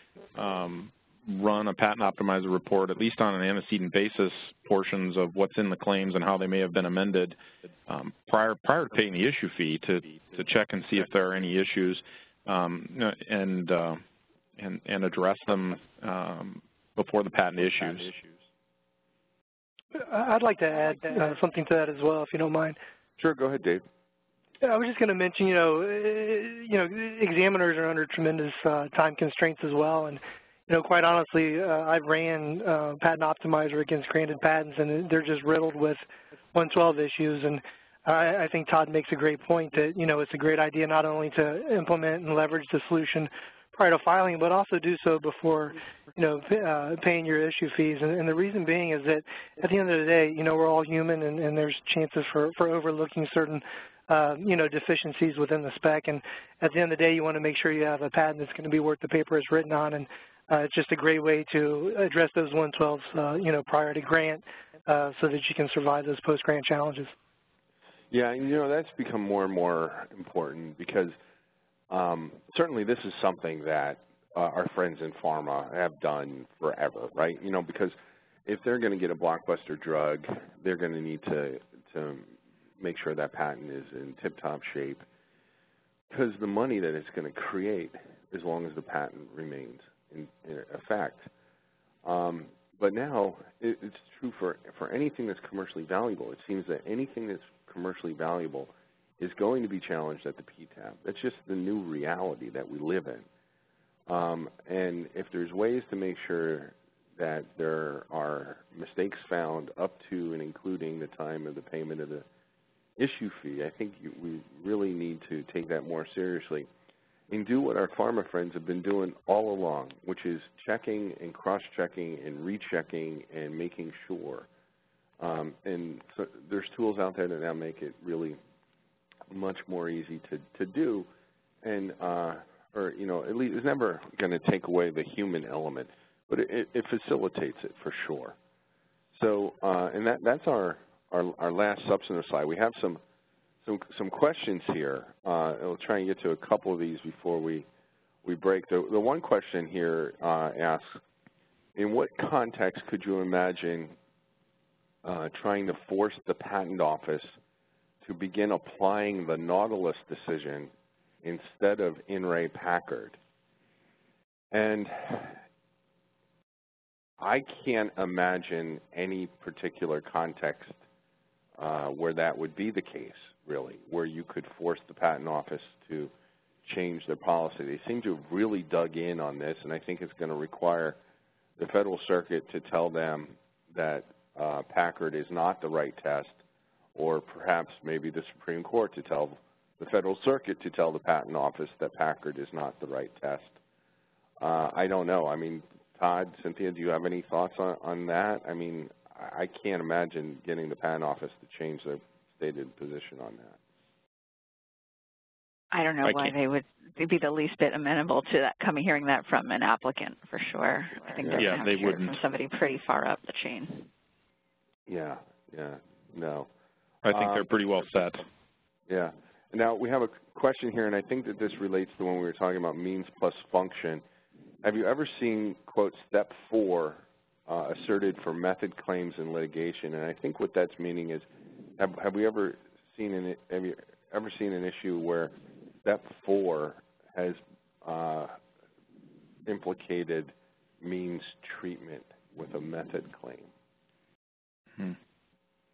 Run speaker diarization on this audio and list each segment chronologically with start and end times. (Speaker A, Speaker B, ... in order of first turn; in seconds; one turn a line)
Speaker A: 0.3-7.4
Speaker A: 7.9-14.0
Speaker A: 14.6-18.3
Speaker B: 19.9-22.8
Speaker C: 23.2-23.8
Speaker B: 24.6-36.0
Speaker B: 36.5-67.1
Speaker C: 68.1-71.1
Speaker C: 71.9-78.0
Speaker C: 78.5-85.0
Speaker C: 86.1-91.3
Speaker C: 92.0-103.3
Speaker C: 104.1-112.3
Speaker C: 113.0-116.7
Speaker C: 117.3-124.5
Speaker C: 125.2-128.4
Speaker C: 129.3-131.1
Speaker C: 131.6-138.4
Speaker C: 139.1-143.0
Speaker C: 143.6-147.7
Speaker C: 148.2-151.0
Speaker C: 151.8-153.9
Speaker C: 155.0-157.4
Speaker C: 158.0-160.7
Speaker C: 161.2-163.2
Speaker C: 164.5-165.4
Speaker C: 167.2-170.8
Speaker C: 171.6-176.1
Speaker C: 176.6-181.0
Speaker C: 181.6-186.4
Speaker C: 186.9-193.6
Speaker C: 194.4-203.6
Speaker D: 205.7-213.9
Speaker A: 206.0-206.3
Speaker A: 211.3-212.1
Speaker C: 214.9-216.5
Speaker A: 217.0-218.3
Speaker C: 217.1-217.5
Speaker C: 218.9-224.0
Speaker C: 224.6-231.2
Speaker C: 231.8-235.3
Speaker C: 235.8-238.4
Speaker C: 239.5-243.5